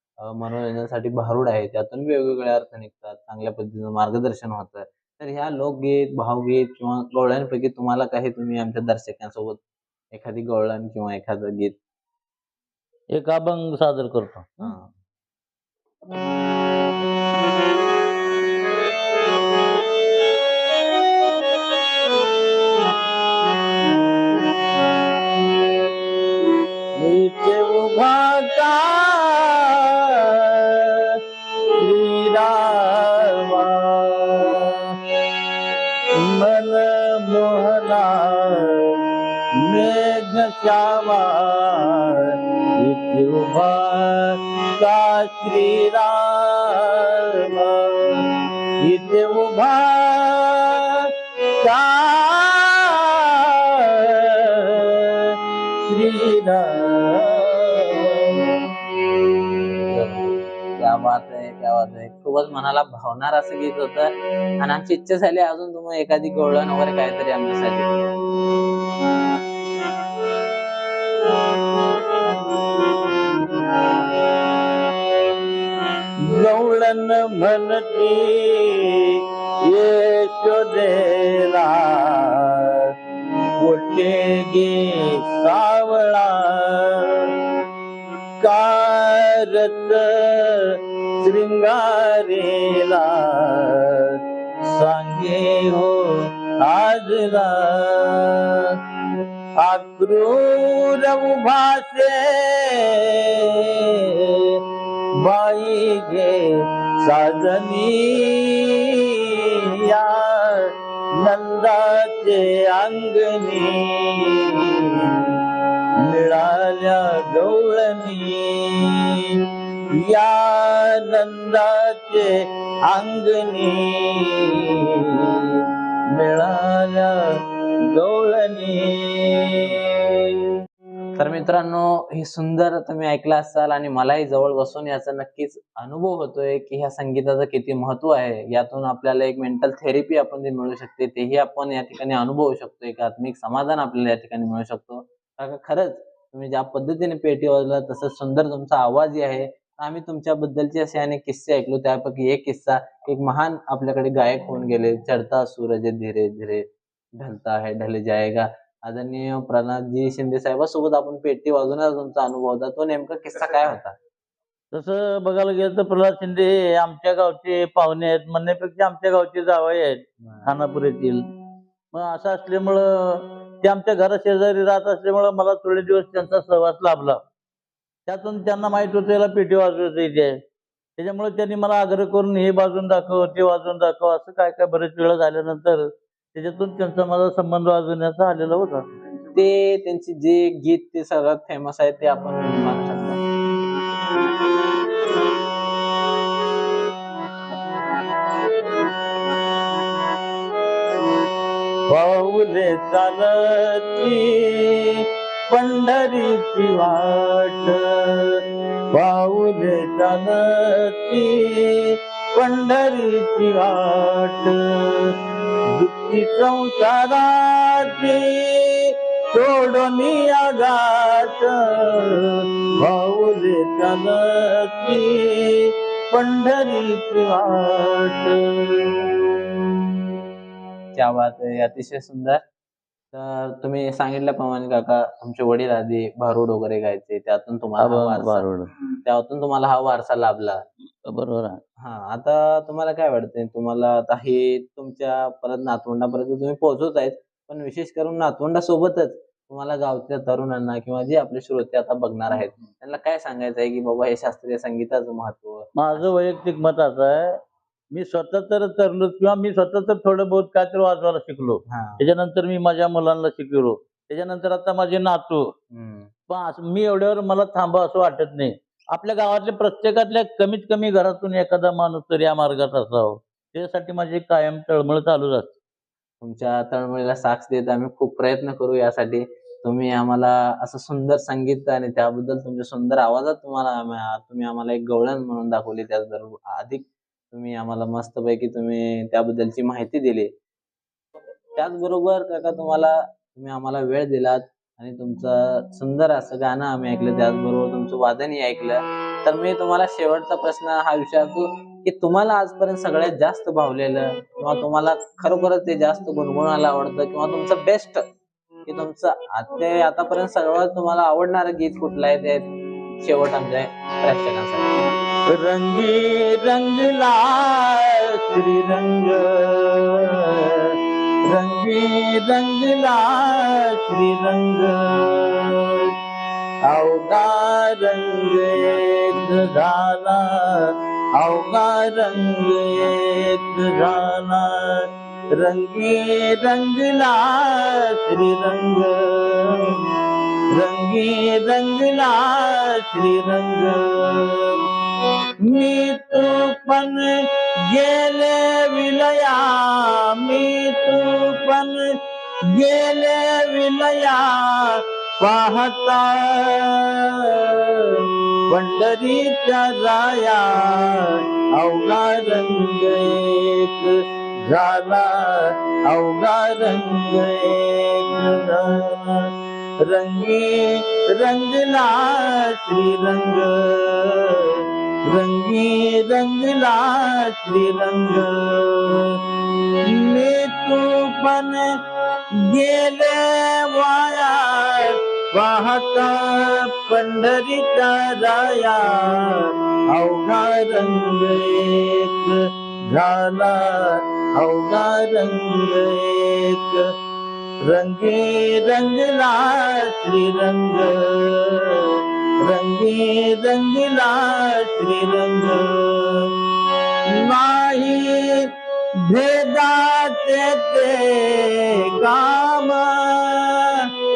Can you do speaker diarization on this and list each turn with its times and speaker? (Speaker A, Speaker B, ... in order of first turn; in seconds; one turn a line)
Speaker A: 0.2-9.6
Speaker A: 10.1-11.8
Speaker B: 13.2-14.8
Speaker A: 14.6-14.9
Speaker B: 26.9-31.2
Speaker B: 31.8-34.8
Speaker B: 36.1-38.8
Speaker B: 39.6-42.3
Speaker B: 42.8-48.2
Speaker B: 48.8-51.0
Speaker B: 51.6-53.1
Speaker B: 53.9-55.3
Speaker B: 55.8-58.5
Speaker A: 60.8-68.0
Speaker B: 76.2-82.8
Speaker B: 83.6-87.3
Speaker B: 88.4-94.2
Speaker B: 94.7-98.6
Speaker B: 99.6-103.4
Speaker B: 104.3-104.6
Speaker B: 105.2-106.5
Speaker B: 107.0-110.6
Speaker B: 111.2-115.2
Speaker B: 116.0-119.3
Speaker B: 120.0-122.3
Speaker B: 122.9-125.3
Speaker B: 126.2-127.1
Speaker B: 127.9-129.7
Speaker A: 131.2-156.6
Speaker A: 157.2-163.9
Speaker B: 164.7-171.2
Speaker B: 171.9-177.2
Speaker B: 178.1-180.3
Speaker B: 181.0-188.8
Speaker A: 189.3-193.2
Speaker B: 201.9-208.4
Speaker B: 208.9-215.1
Speaker B: 215.8-229.0
Speaker A: 230.9-232.4
Speaker A: 233.1-238.5
Speaker B: 237.8-238.7
Speaker A: 239.1-240.6
Speaker B: 241.1-241.6
Speaker A: 241.8-256.1
Speaker B: 255.8-257.3
Speaker B: 257.9-265.4
Speaker A: 261.7-262.1
Speaker A: 265.7-266.1
Speaker B: 266.3-275.5
Speaker A: 276.2-290.3
Speaker A: 291.6-308.0
Speaker A: 308.7-312.5
Speaker A: 313.0-314.8
Speaker B: 315.3-320.6
Speaker B: 321.2-325.8
Speaker B: 326.7-339.7
Speaker B: 340.5-344.6
Speaker B: 345.4-347.1
Speaker B: 347.7-351.9
Speaker B: 352.5-357.9
Speaker B: 358.5-369.2
Speaker B: 369.8-379.1
Speaker B: 379.9-381.7
Speaker B: 382.4-396.8
Speaker B: 397.6-401.9
Speaker B: 402.4-406.3
Speaker B: 407.1-408.5
Speaker B: 409.0-413.7